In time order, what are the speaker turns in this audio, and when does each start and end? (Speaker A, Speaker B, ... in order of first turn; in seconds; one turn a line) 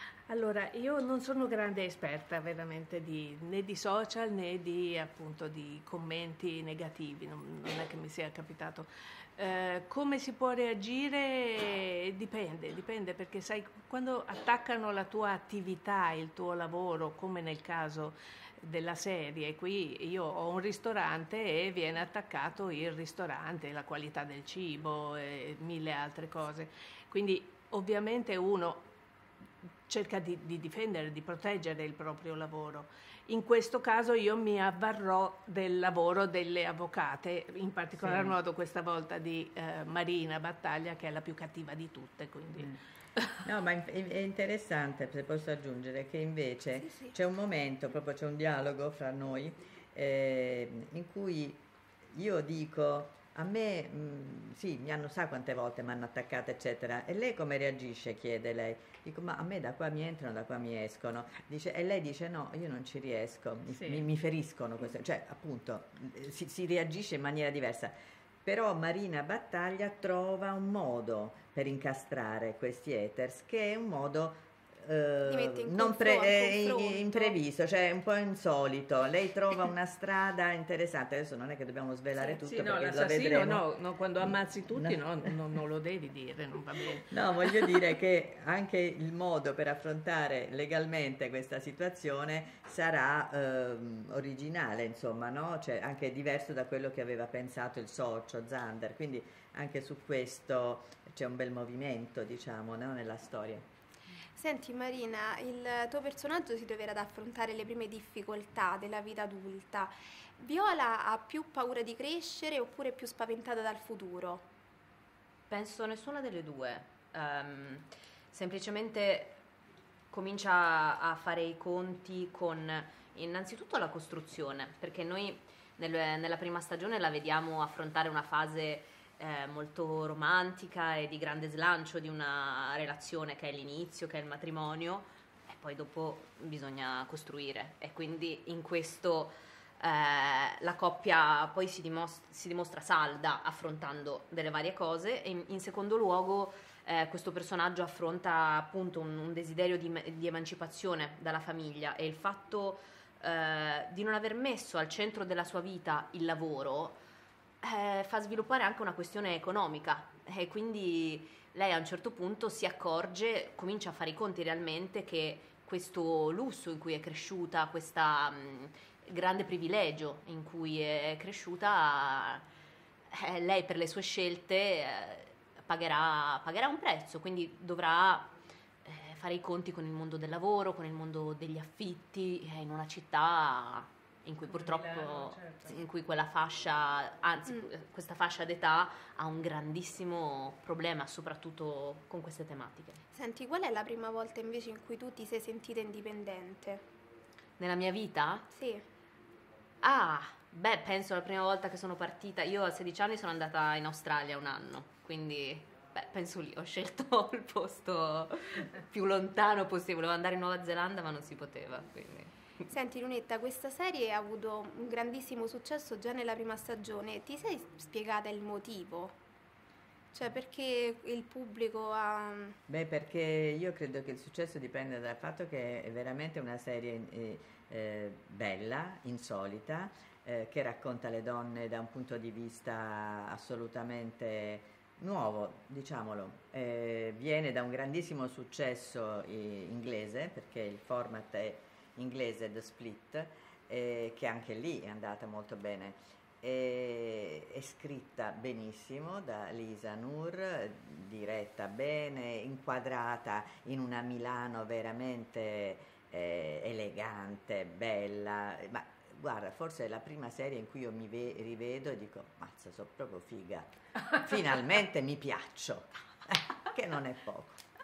Speaker A: 0.3-28.9
Speaker A: 29.9-42.8
Speaker B: 38.0-38.4
Speaker B: 43.4-83.6
Speaker C: 46.8-47.2
Speaker A: 63.7-64.0
Speaker C: 75.3-77.4
Speaker A: 82.2-87.8
Speaker B: 87.1-103.7
Speaker C: 104.4-114.5
Speaker D: 115.5-119.4
Speaker D: 120.1-157.0
Speaker D: 157.6-172.5
Speaker D: 173.1-178.3
Speaker D: 178.8-193.0
Speaker A: 184.5-185.8
Speaker C: 193.1-196.8
Speaker D: 197.6-198.5
Speaker C: 198.5-198.8
Speaker D: 199.8-212.4
Speaker C: 212.7-219.2
Speaker C: 220.1-222.6
Speaker B: 222.7-267.7